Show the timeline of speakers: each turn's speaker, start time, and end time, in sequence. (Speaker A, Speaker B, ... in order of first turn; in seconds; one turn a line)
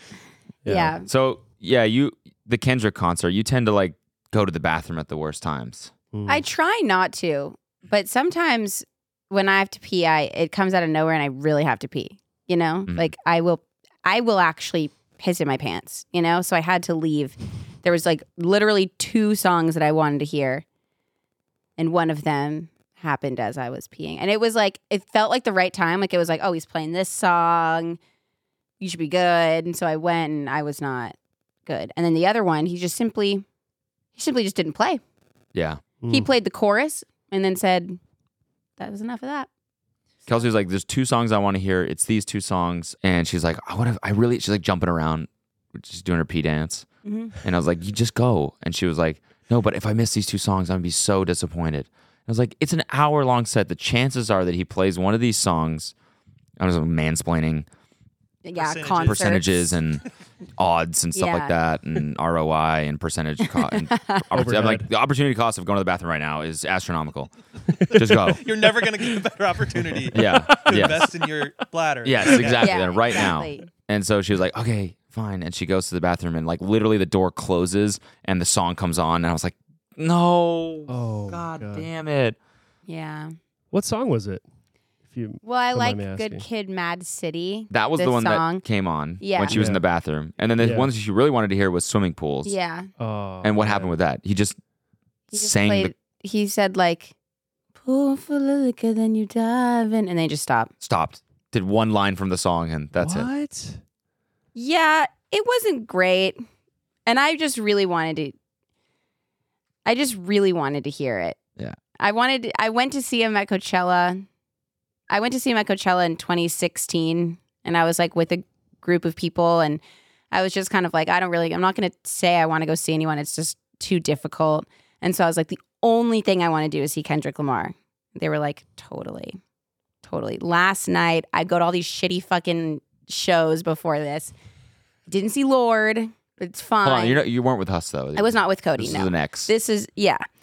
Speaker A: 0.6-1.0
Speaker B: 0.6-1.1
Speaker C: 1.1-5.9
Speaker A: 6.1-6.4
Speaker B: 6.3-20.6
Speaker B: 21.8-28.0
Speaker B: 28.8-33.4
Speaker B: 34.1-35.0
Speaker C: 35.5-35.8
Speaker A: 36.0-36.3
Speaker B: 36.1-38.0
Speaker B: 38.8-39.5
Speaker C: 40.3-46.9
Speaker B: 47.0-47.4
Speaker C: 47.4-55.9
Speaker C: 56.6-57.7
Speaker B: 58.4-59.8
Speaker D: 58.6-59.4
Speaker C: 59.0-60.0
Speaker C: 60.6-67.3
Speaker B: 61.1-61.5
Speaker B: 63.6-64.2
Speaker A: 64.3-64.8
Speaker C: 67.9-68.5
Speaker D: 68.0-72.7
Speaker C: 70.1-71.1
Speaker C: 72.0-82.4
Speaker B: 72.6-73.7
Speaker A: 80.9-81.9
Speaker B: 82.9-83.3
Speaker A: 83.7-84.4
Speaker A: 85.0-86.4
Speaker B: 85.4-88.6
Speaker C: 87.7-92.5
Speaker B: 89.2-89.6
Speaker A: 89.5-89.8
Speaker A: 90.6-90.9
Speaker B: 92.4-92.9
Speaker A: 93.0-93.9
Speaker C: 93.4-94.6
Speaker B: 95.3-97.1
Speaker C: 95.3-95.9
Speaker B: 97.8-100.7
Speaker C: 100.8-103.3
Speaker A: 103.0-103.8
Speaker B: 104.5-106.4
Speaker B: 107.0-108.3
Speaker B: 109.8-111.4
Speaker B: 112.0-114.2
Speaker B: 115.1-129.4
Speaker B: 130.0-134.3
Speaker B: 135.1-137.2
Speaker C: 136.8-139.5
Speaker B: 138.2-140.2